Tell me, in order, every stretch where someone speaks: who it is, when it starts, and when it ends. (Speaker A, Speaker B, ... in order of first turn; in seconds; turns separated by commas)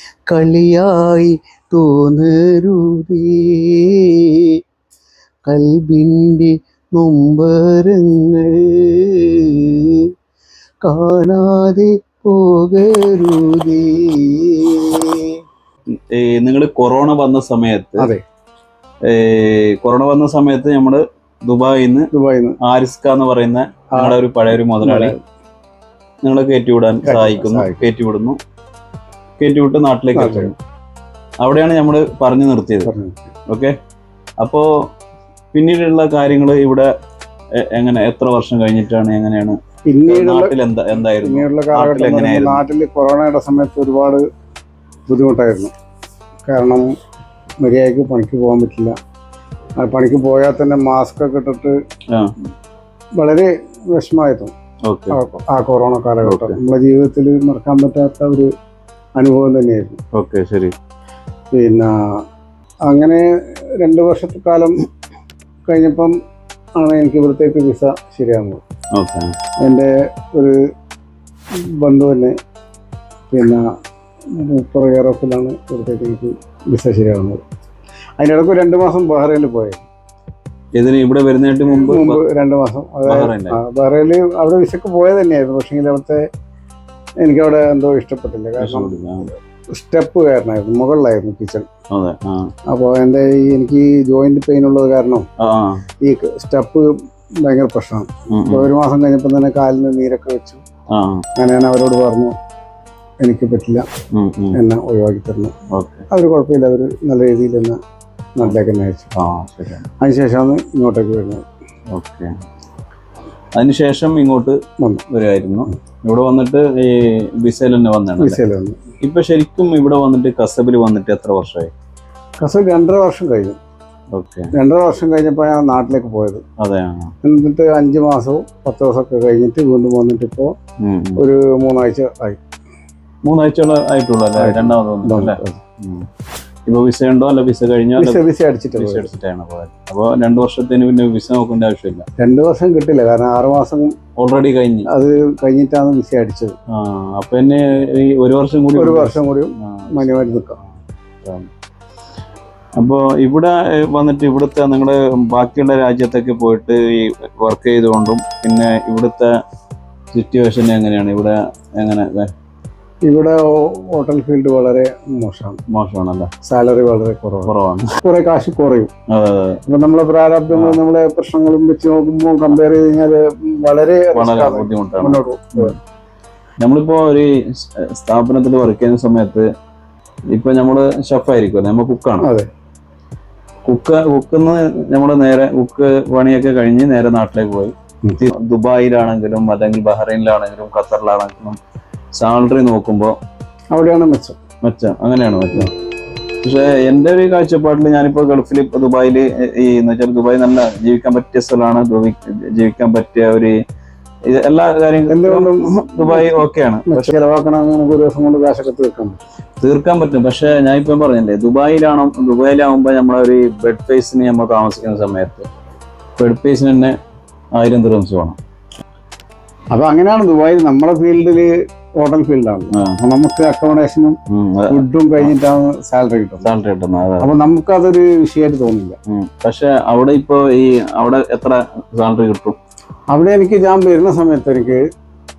Speaker A: 0.3-4.4, Speaker A: 5.5-10.0, Speaker A: 10.8-14.9, Speaker B: 16.0-18.1, Speaker B: 19.0-22.1, Speaker C: 22.1-22.6, Speaker B: 22.6-25.1, Speaker C: 24.8-25.2, Speaker B: 26.2-28.4, Speaker C: 27.0-27.8, Speaker B: 29.4-30.5, Speaker C: 30.1-30.5, Speaker B: 31.4-32.9, Speaker C: 32.8-33.3, Speaker B: 33.5-33.8, Speaker B: 34.4-34.7, Speaker B: 35.5-36.9, Speaker B: 37.7-42.6, Speaker C: 39.9-44.2, Speaker C: 45.1-45.7, Speaker C: 46.5-46.9, Speaker C: 47.6-48.9, Speaker C: 49.8-51.8, Speaker C: 53.2-54.5, Speaker B: 54.9-55.2, Speaker C: 55.1-58.5, Speaker B: 56.2-56.6, Speaker C: 59.2-60.0, Speaker B: 60.1-60.7, Speaker C: 61.5-61.9, Speaker C: 62.9-63.3, Speaker C: 63.8-64.8, Speaker C: 65.7-66.1, Speaker C: 66.8-68.6, Speaker B: 68.9-69.3, Speaker C: 69.6-70.5, Speaker C: 71.8-72.3, Speaker C: 73.3-73.6, Speaker C: 74.4-77.4, Speaker C: 78.2-79.8, Speaker B: 80.8-82.2, Speaker C: 81.9-86.2, Speaker B: 83.0-83.6, Speaker C: 87.2-91.7, Speaker B: 88.6-89.3, Speaker B: 91.9-92.5, Speaker C: 92.7-95.2, Speaker B: 95.4-95.8, Speaker C: 96.0-96.9, Speaker C: 97.4-100.6, Speaker B: 98.3-98.7, Speaker B: 100.9-101.2, Speaker C: 101.3-102.3, Speaker C: 103.2-103.9, Speaker B: 104.1-104.6, Speaker C: 104.5-105.5, Speaker B: 105.7-106.0, Speaker C: 106.1-107.8, Speaker C: 108.4-109.1, Speaker B: 109.1-109.8, Speaker C: 110.0-111.4, Speaker B: 111.9-112.3, Speaker B: 113.5-114.6, Speaker B: 115.1-118.4, Speaker C: 118.2-118.8, Speaker B: 119.0-121.7, Speaker C: 122.4-123.5, Speaker B: 124.1-124.5, Speaker C: 124.5-126.4, Speaker B: 126.6-127.1, Speaker C: 127.2-130.5, Speaker B: 130.8-131.2, Speaker C: 131.2-132.4, Speaker B: 133.2-136.1, Speaker C: 134.3-135.6, Speaker B: 136.7-138.2, Speaker C: 138.0-139.1, Speaker B: 138.8-142.1, Speaker C: 142.2-143.9, Speaker B: 144.2-144.9, Speaker C: 144.8-146.5, Speaker B: 146.7-150.7, Speaker C: 148.8-150.6, Speaker B: 151.2-151.5, Speaker B: 152.8-159.3, Speaker B: 160.1-162.3, Speaker C: 163.0-165.6, Speaker B: 165.7-166.3, Speaker C: 166.4-168.9, Speaker B: 167.4-167.8, Speaker B: 169.1-169.6, Speaker C: 169.7-175.7, Speaker B: 170.5-170.8, Speaker B: 174.1-175.8, Speaker B: 176.6-179.4, Speaker B: 180.3-182.2, Speaker C: 182.2-182.5, Speaker B: 183.7-191.6, Speaker B: 192.1-193.2, Speaker C: 193.7-194.4, Speaker B: 194.6-195.7, Speaker B: 196.4-203.6, Speaker B: 204.3-207.1, Speaker C: 205.1-209.2, Speaker B: 209.6-215.5, Speaker B: 216.2-217.0, Speaker B: 217.5-218.4, Speaker C: 219.7-224.2, Speaker B: 222.7-223.0, Speaker B: 224.3-225.3, Speaker C: 224.7-226.5, Speaker B: 226.4-227.3, Speaker C: 227.2-228.9, Speaker B: 229.1-232.6, Speaker C: 233.1-234.8